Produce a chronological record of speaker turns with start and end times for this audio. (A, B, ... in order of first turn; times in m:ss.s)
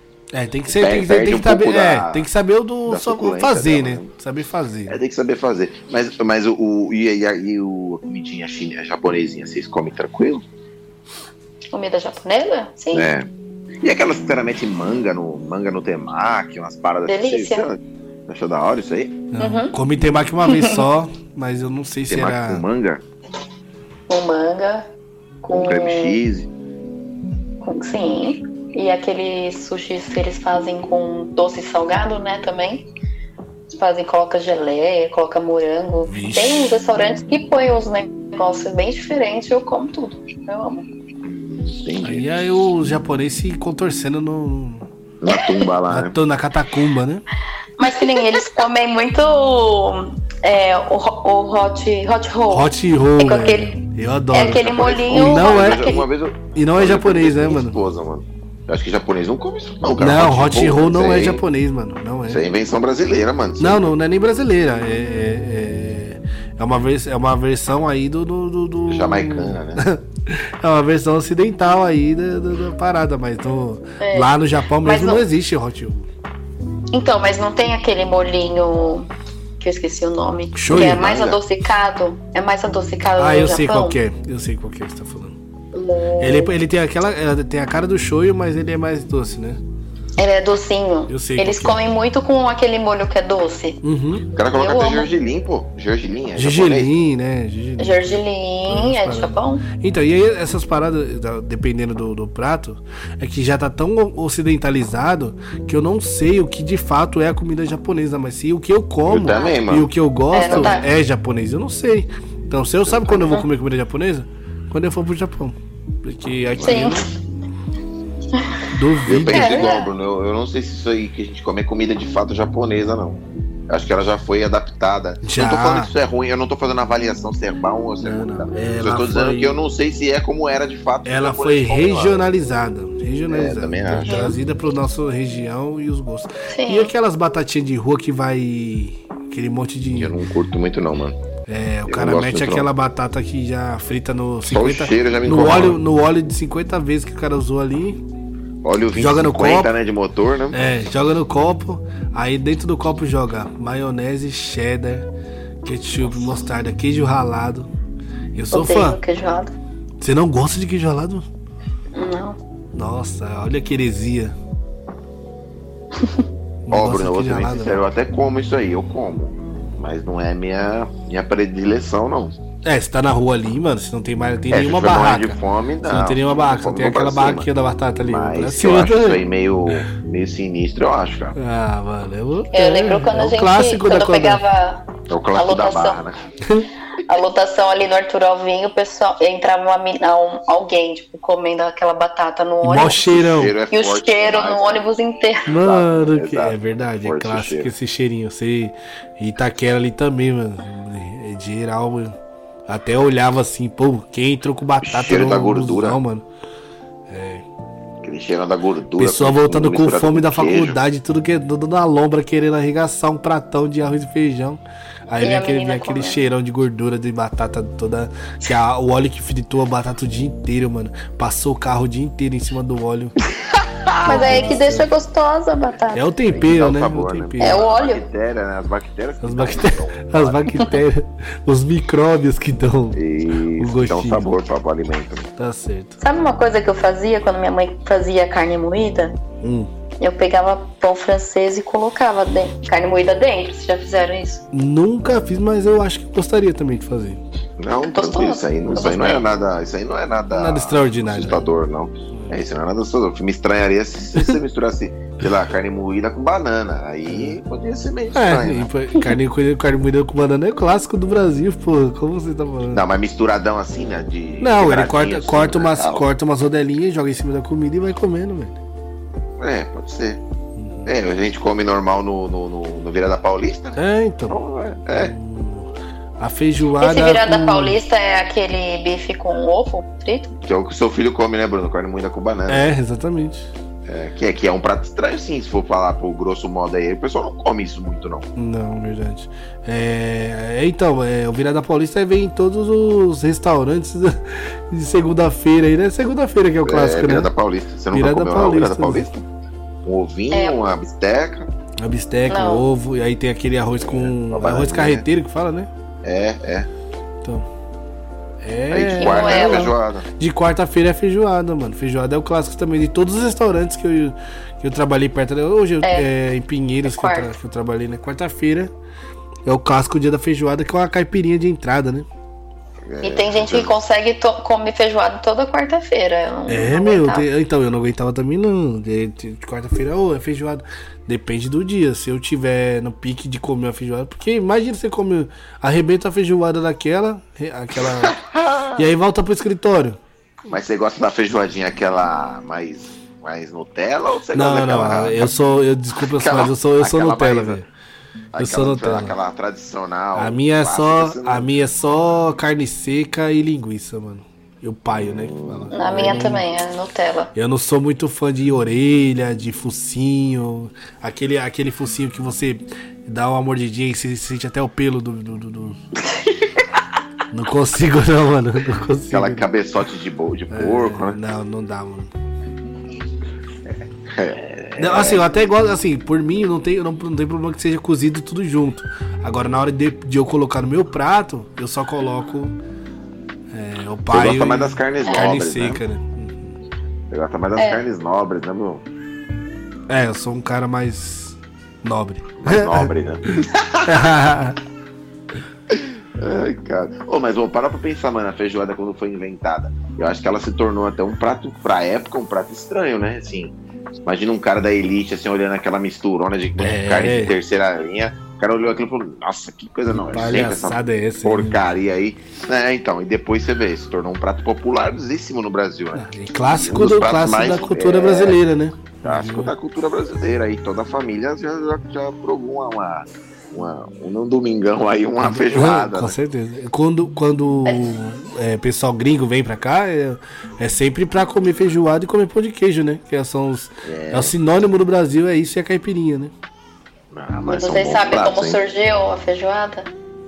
0:00.3-0:05.0 A
0:00.7-0:02.3 B
0:02.9-0:04.1 B
0:04.9-0:10.4 B
0:11.7-0:13.1 C
0:12.9-0:13.3 B
0:13.8-0:19.2 B
0:17.0-0:17.6 C
0:19.3-0:22.6 A
0:19.4-0:19.7 C
0:20.4-0:20.8 C
0:22.1-0:23.0 B
0:24.1-0:24.9 C
0:25.4-0:26.2 C
0:25.5-0:26.5 B
0:27.6-0:32.8 C
0:33.7-0:40.8 C
0:36.0-0:36.7 A
0:41.2-0:42.4 B
0:42.0-0:44.9 A
0:45.2-0:46.2 B
0:45.3-0:45.7 C
0:45.9-0:47.2 A
0:47.8-0:53.8 C
0:48.2-0:48.4 B
0:52.5-0:55.9 A
0:54.3-0:56.0 C
0:54.5-1:01.4 B
0:56.5-0:57.8 A
1:00.0-1:02.4 A
1:02.3-1:03.9 B
1:03.6-1:16.1 A
1:08.9-1:09.8 B
1:14.0-1:15.2 C
1:16.9-1:19.1 C
1:19.6-1:24.0 C
1:20.5-1:21.0 A
1:20.7-1:21.4 B
1:23.2-1:25.4 A
1:25.7-1:26.5 C
1:26.2-1:29.6 A
1:30.2-1:33.8 C
1:31.1-1:31.8 A
1:33.8-1:34.2 A
1:34.3-1:36.9 B
1:34.5-1:35.1 C
1:36.4-1:38.0 A
1:37.8-1:39.6 C
1:38.7-1:57.1 A
1:49.0-1:50.8 B
1:50.3-1:50.9 C
1:52.9-1:53.2 B
1:53.2-1:53.4 C
1:56.6-1:57.0 B
1:56.6-1:57.0 C
1:58.4-1:58.6 C
1:58.7-1:59.6 A
1:59.1-2:12.3 B
1:59.3-1:59.9 C
2:05.2-2:05.9 A
2:08.0-2:09.6 A
2:11.0-2:20.1 A
2:13.3-2:14.3 B
2:14.0-2:14.4 C
2:16.5-2:16.9 C
2:19.9-2:21.2 B
2:21.5-2:28.0 A
2:21.9-2:22.7 B
2:24.4-2:25.8 B
2:28.6-2:30.6 B
2:28.9-2:29.7 A
2:30.5-2:35.1 A
2:35.6-2:37.7 A
2:38.3-2:39.0 A
2:38.5-2:39.5 C
2:40.0-2:41.2 A
2:41.9-2:42.4 C
2:42.7-2:44.3 A
2:46.7-2:47.8 A
2:46.7-2:52.3 B
2:52.6-2:59.2 A
2:54.5-2:57.5 B
2:58.0-3:01.4 B
3:01.4-3:04.4 A
3:02.5-3:06.0 C
3:05.1-3:06.2 B
3:07.0-3:13.0 C
3:12.6-3:13.6 A
3:13.0-3:14.8 B
3:13.7-3:15.6 C
3:15.4-3:22.2 A
3:15.5-3:17.7 B
3:22.7-3:26.2 A
3:24.8-3:26.0 B
3:27.1-3:27.4 A
3:28.0-3:30.8 B
3:29.0-3:43.2 A
3:35.2-3:36.2 C
3:43.6-3:44.6 B
3:44.0-3:44.9 A
3:44.0-3:46.1 C
3:45.9-3:47.6 A
3:46.3-3:50.8 B
3:47.4-3:48.0 C
3:49.2-3:53.0 A
3:52.9-3:55.3 B
3:53.5-3:54.3 A
3:55.4-3:56.0 A
3:56.0-3:59.2 C
3:59.4-3:59.7 A
4:00.0-4:04.4 C
4:04.5-4:07.2 A
4:07.6-4:18.7 B
4:07.9-4:09.2 C
4:10.3-4:11.4 A
4:17.1-4:17.4 A
4:18.1-4:22.8 A
4:22.7-4:26.0 B
4:24.4-4:28.6 A
4:29.4-4:30.2 B
4:30.6-4:30.9 A
4:30.8-4:35.1 B
4:33.7-4:34.4 A
4:34.9-4:37.8 A
4:36.8-4:40.4 C
4:40.4-4:42.7 B
4:42.5-4:43.5 A
4:43.8-4:48.3 B
4:48.4-4:57.3 A
4:56.6-4:59.2 B
4:57.9-4:59.0 A
4:59.8-5:01.5 B
5:00.3-5:00.6 C
5:01.8-5:05.7 A
5:02.3-5:02.6 C
5:03.8-5:05.0 B
5:06.0-5:06.7 B
5:08.4-5:18.7 A
5:08.7-5:10.0 B
5:09.0-5:09.7 C
5:16.8-5:17.3 C
5:19.4-5:22.0 A
5:22.8-5:23.7 B
5:23.0-5:27.3 C
5:26.5-5:38.2 A
5:37.8-5:38.9 B
5:38.7-5:40.0 A
5:40.5-5:45.3 B
5:44.3-5:47.7 A
5:46.2-5:47.6 B
5:48.3-5:51.5 B
5:48.4-5:49.1 A
5:50.2-5:56.4 A
5:54.9-5:56.2 B
5:55.7-5:57.3 C
5:57.3-6:05.8 A
6:07.3-6:09.5 A
6:09.1-6:11.2 B
6:10.5-6:12.1 A
6:14.0-6:15.4 B
6:14.8-6:22.5 A
6:23.5-6:26.5 A
6:24.1-6:25.8 B
6:27.1-6:28.8 B
6:27.6-6:27.9 C
6:29.9-6:34.6 A
6:32.4-6:34.1 B
6:35.7-6:58.4 B
6:46.6-6:47.3 A
6:49.9-6:51.6 A
6:55.9-6:59.5 A
6:59.0-7:06.2 B
7:05.2-7:16.3 A
7:07.6-7:07.9 C
7:13.8-7:14.3 B
7:17.1-7:18.6 B
7:17.4-7:19.9 C